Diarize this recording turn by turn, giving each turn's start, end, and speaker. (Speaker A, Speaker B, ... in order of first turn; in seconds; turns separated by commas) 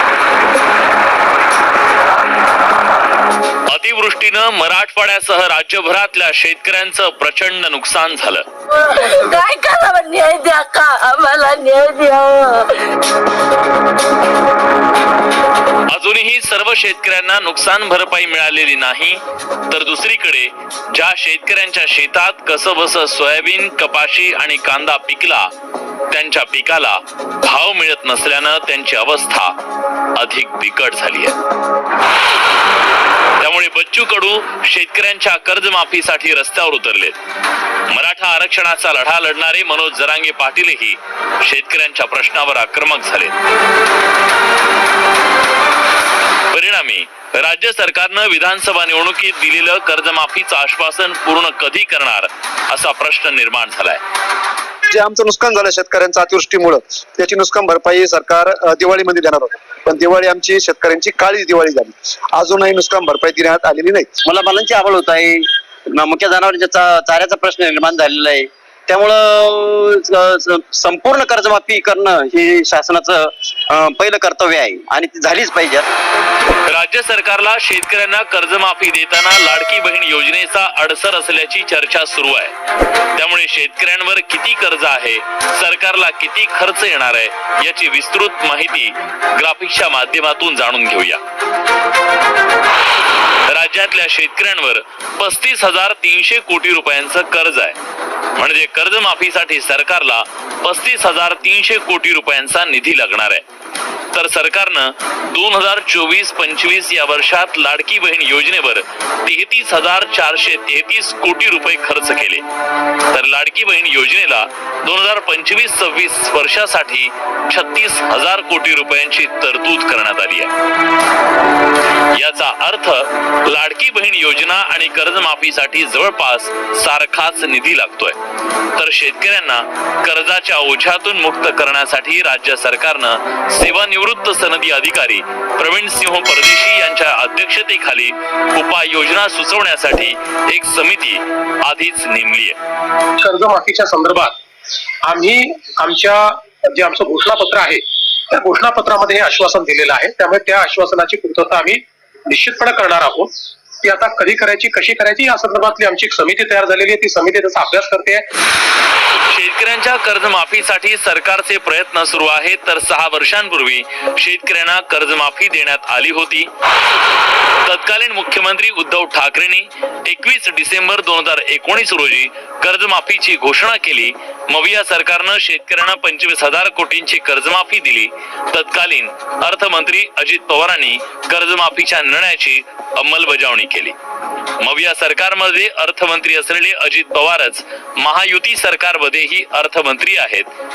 Speaker A: 3.7-8.5, Speaker B: 8.7-12.9, Speaker A: 15.9-25.5, Speaker A: 26.1-29.6, Speaker A: 30.2-31.4, Speaker A: 33.4-37.2, Speaker A: 37.9-43.4, Speaker A: 46.5-54.0, Speaker C: 54.9-64.2, Speaker D: 64.2-75.9, Speaker A: 76.7-82.5, Speaker A: 83.1-91.2, Speaker A: 93.5-97.8, Speaker A: 98.4-103.4, Speaker A: 104.1-112.5, Speaker A: 113.1-120.5, Speaker A: 122.2-128.2, Speaker A: 128.8-142.6, Speaker E: 143.2-144.3, Speaker E: 145.0-158.3, Speaker A: 159.3-166.5, Speaker A: 167.7-183.9, Speaker A: 184.6-190.5